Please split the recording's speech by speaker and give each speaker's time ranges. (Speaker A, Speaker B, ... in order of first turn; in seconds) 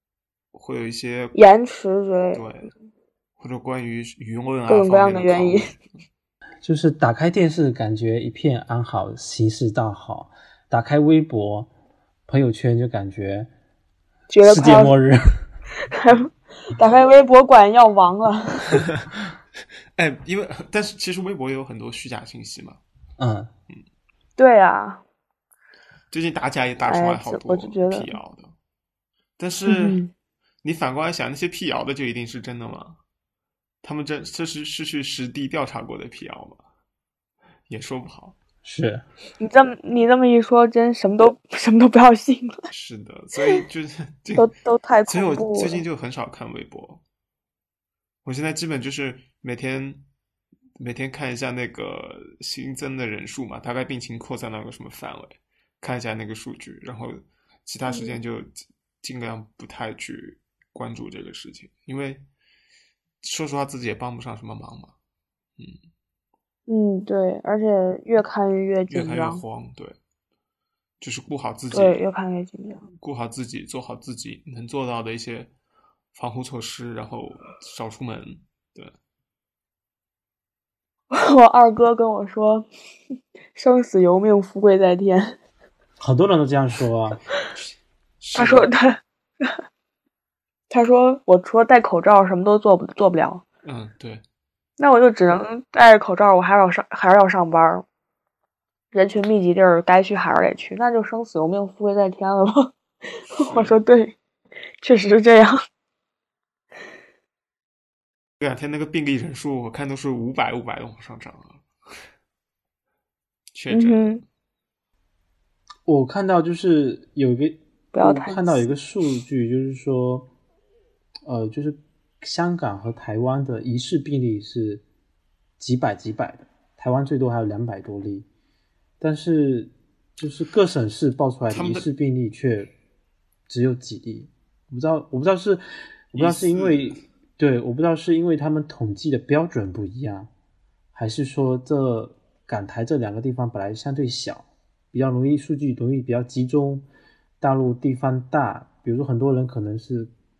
Speaker A: 0.5-1.4, 2.3-2.7, 3.4-5.8, 20.0-22.8, 26.1-28.5, 29.4-30.0, 30.6-33.0, 33.8-36.6, 37.7-38.4, 42.7-44.5, 45.1-47.0, 48.2-50.0, 50.8-62.2, 63.2-65.0, 68.9-70.0, 71.0-72.0, 73.0-75.5, 76.1-78.9, 88.2-88.7, 93.6-94.2, 103.4-103.8, 108.4-111.6, 113.5-114.2, 131.5-131.9, 136.1-137.0
Speaker B: 1.4-2.4, 4.7-5.7, 14.3-14.9, 15.9-18.8, 24.4-25.0, 26.9-28.2, 29.7-30.1, 39.4-42.6, 44.4-45.8, 57.9-58.1, 66.7-69.4, 71.7-72.8, 81.1-82.7, 83.5-85.4, 88.3-89.6, 90.7-93.4, 94.8-97.8, 98.9-102.7, 103.3-104.2, 104.8-105.6, 113.7-114.2, 117.9-118.7
Speaker C: 6.6-11.7, 12.3-13.5, 14.4-15.2, 23.2-23.5, 38.6-39.0, 86.0-87.2, 115.9-120.3, 121.2-124.8, 125.6-128.3, 129.0-132.7, 133.5-140.3, 140.9-146.8, 147.4-150.1